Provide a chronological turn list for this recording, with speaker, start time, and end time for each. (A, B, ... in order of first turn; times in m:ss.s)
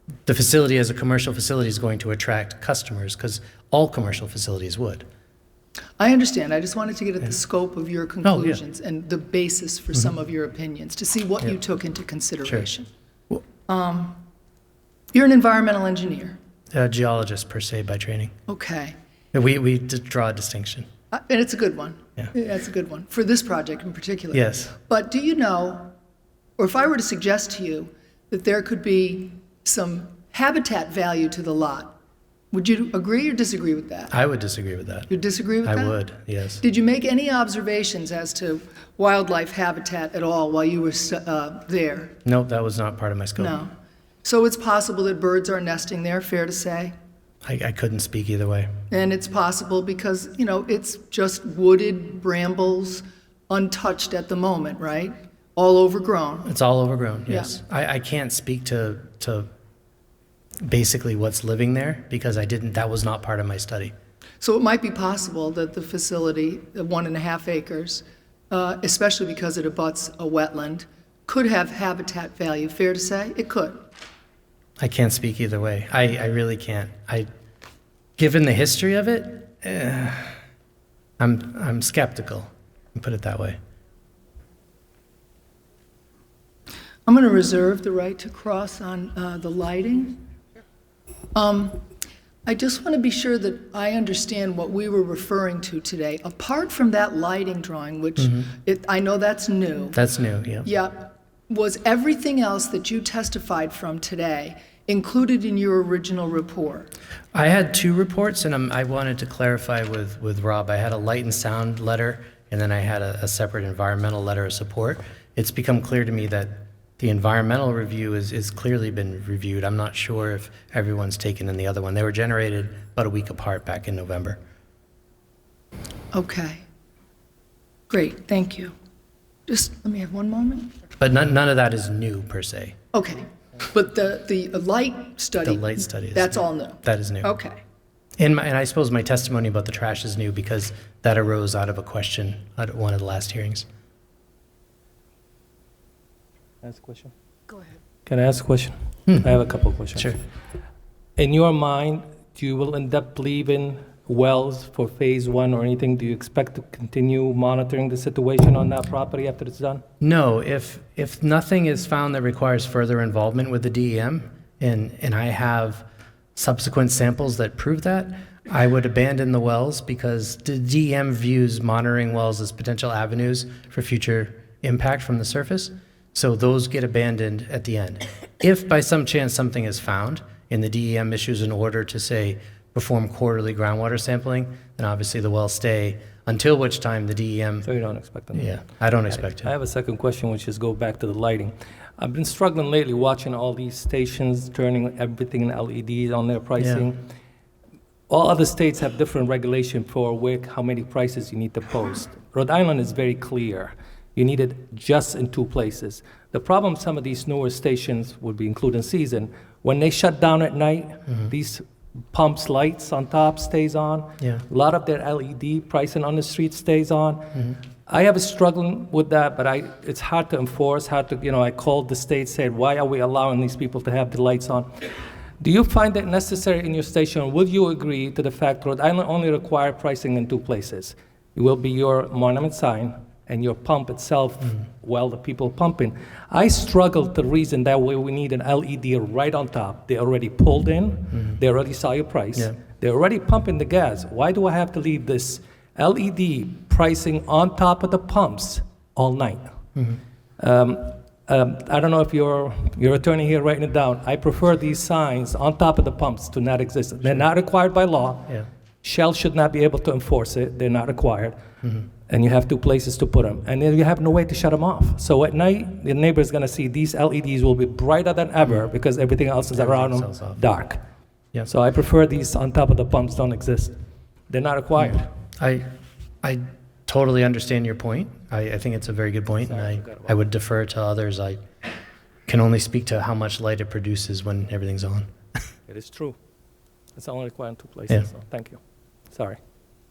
0:00.2-0:05.0 A
0:06.0-0:12.9 B
0:08.2-0:08.6 A
0:13.7-0:14.2 B
0:15.1-0:16.4 B
0:16.7-0:18.3 A
0:18.5-0:18.9 B
0:19.3-0:20.8 A
0:21.1-0:25.9 B
0:24.3-0:24.7 A
0:26.6-0:32.0 B
0:32.5-0:34.1 B
0:34.1-0:35.1 A
0:35.1-0:36.0 B
0:35.6-0:36.6 A
0:36.6-0:42.2 B
0:42.2-0:43.6 A
0:43.4-0:43.7 B
0:44.2-0:46.9 B
0:47.4-0:48.7 A
0:48.9-0:56.5 B
0:56.4-0:59.5 A
0:57.3-0:57.6 B
1:00.6-1:03.9 A
1:04.4-1:13.9 B
1:14.8-1:17.3 A
1:18.2-1:20.3 A
1:21.2-1:23.6 A
1:27.0-1:30.2 B
1:31.3-1:31.8 B
1:32.4-1:40.0 B
1:38.2-1:38.5 A
1:39.9-1:40.7 A
1:40.6-1:46.9 B
1:47.3-2:04.4 A
2:06.1-2:06.6 B
2:07.9-2:08.7 B
2:09.5-2:10.7 B
2:11.0-2:12.8 A
2:12.9-2:17.6 B
2:15.4-2:17.3 A
2:18.2-2:23.6 A
2:26.6-2:27.1 C
2:28.0-2:30.2 C
2:31.2-2:39.8 C
2:40.0-2:45.8 A
2:46.4-3:07.7 A
3:07.6-3:16.9 C
3:08.3-3:09.5 A
3:16.6-3:16.9 A
3:18.1-3:44.7 C
3:45.4-4:09.5 C
4:10.4-4:18.3 C
4:18.8-4:21.4 C
4:22.1-4:30.8 C
4:29.5-4:30.4 A
4:31.5-4:33.7 C
4:34.3-4:35.1 C
4:34.8-4:35.7 A
4:36.2-4:41.4 A
4:39.4-4:40.2 C
4:42.3-4:45.1 A
4:45.7-4:46.2 C
4:47.0-4:48.6 C
4:49.1-4:49.4 C